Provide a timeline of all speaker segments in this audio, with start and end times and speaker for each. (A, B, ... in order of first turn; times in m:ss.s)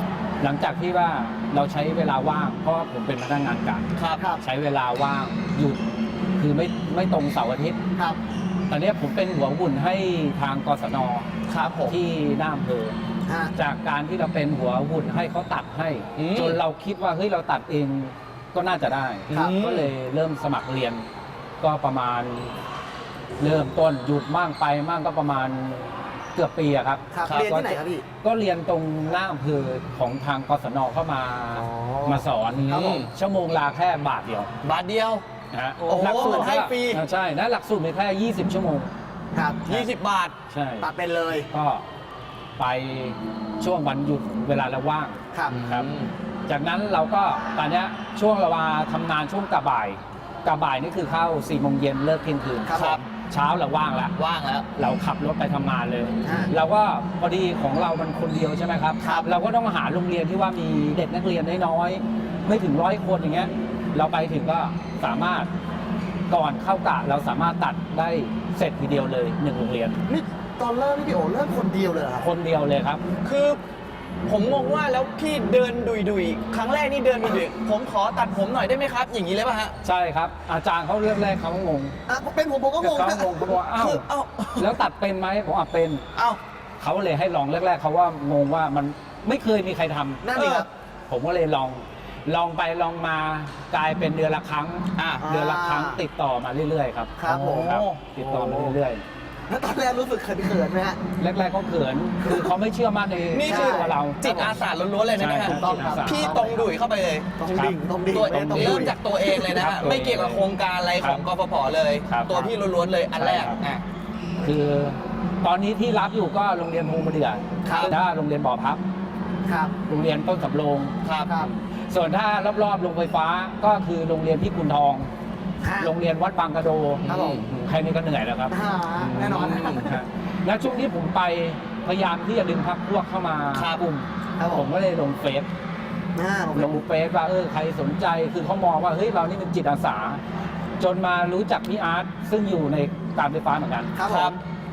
0:00.4-0:03.9 A
0:04.0-0:04.3 B
0:04.2-0:04.4 C
0:04.4-0:05.8 A
0:06.4-0:07.8 A
0:08.7-0:11.3 A
0:11.5-0:12.0 B
0:11.9-0:13.0 A
0:13.3-0:13.6 C
0:13.6-0:21.1 A
0:16.2-0:16.6 B
0:19.3-0:19.9 B
0:21.6-0:22.6 A
0:23.4-0:34.5 A
0:27.1-0:28.0 C
0:27.2-0:27.6 B
0:31.5-0:33.1 B
0:32.7-0:33.0 C
0:34.6-0:35.2 B
0:35.5-0:38.9 A
0:35.9-0:37.0 B
0:35.9-0:36.6 C
0:39.3-0:39.9 C
0:39.7-0:40.4 B
0:40.5-0:40.9 A
0:40.8-0:41.5 C
0:41.5-0:41.8 A
0:42.6-0:45.9 A
0:45.3-0:45.6 C
0:45.5-0:46.1 B
0:46.5-0:54.2 A
0:52.6-0:53.0 C
0:52.7-0:53.1 B
0:54.2-0:54.7 B
0:54.7-1:05.5 A
0:56.2-0:56.5 C
1:06.3-1:10.0 A
1:10.1-1:12.3 C
1:12.2-1:13.0 A
1:13.2-1:13.6 B
1:14.3-1:19.7 B
1:19.8-1:22.0 A
1:22.1-1:23.6 C
1:22.8-1:24.0 A
1:23.8-1:24.7 B
1:24.6-1:26.0 A
1:26.2-1:26.4 B
1:26.8-1:39.0 A
1:30.2-1:30.7 C
1:35.0-1:35.3 B
1:35.2-1:36.0 C
1:37.2-1:38.8 C
1:37.3-1:38.0 B
1:39.5-1:41.0 C
1:41.2-1:44.2 A
1:42.2-1:42.5 C
1:43.3-1:47.3 B
1:43.4-1:44.6 C
1:45.2-1:46.5 A
1:45.4-1:46.8 C
1:47.4-1:49.3 C
1:47.5-1:50.5 A
1:48.1-1:53.8 B
1:52.0-1:52.5 A
1:53.2-1:53.6 A
1:54.4-1:58.8 A
1:57.6-1:58.0 B
1:57.6-1:57.9 C
1:59.4-1:59.7 C
1:59.9-2:00.9 A
2:01.0-2:01.4 B
2:01.2-2:01.5 C
2:01.7-2:05.1 A
2:05.6-2:05.9 C
2:05.8-2:08.5 A
2:07.0-2:07.5 B
2:07.1-2:07.4 C
2:08.5-2:10.0 C
2:09.0-2:09.9 B
2:09.8-2:15.5 A
2:13.5-2:13.8 B
2:14.4-2:14.7 C
2:16.2-2:16.8 C
2:16.5-2:20.2 A
2:20.8-2:24.1 A
2:24.0-2:24.4 C
2:24.0-2:24.4 B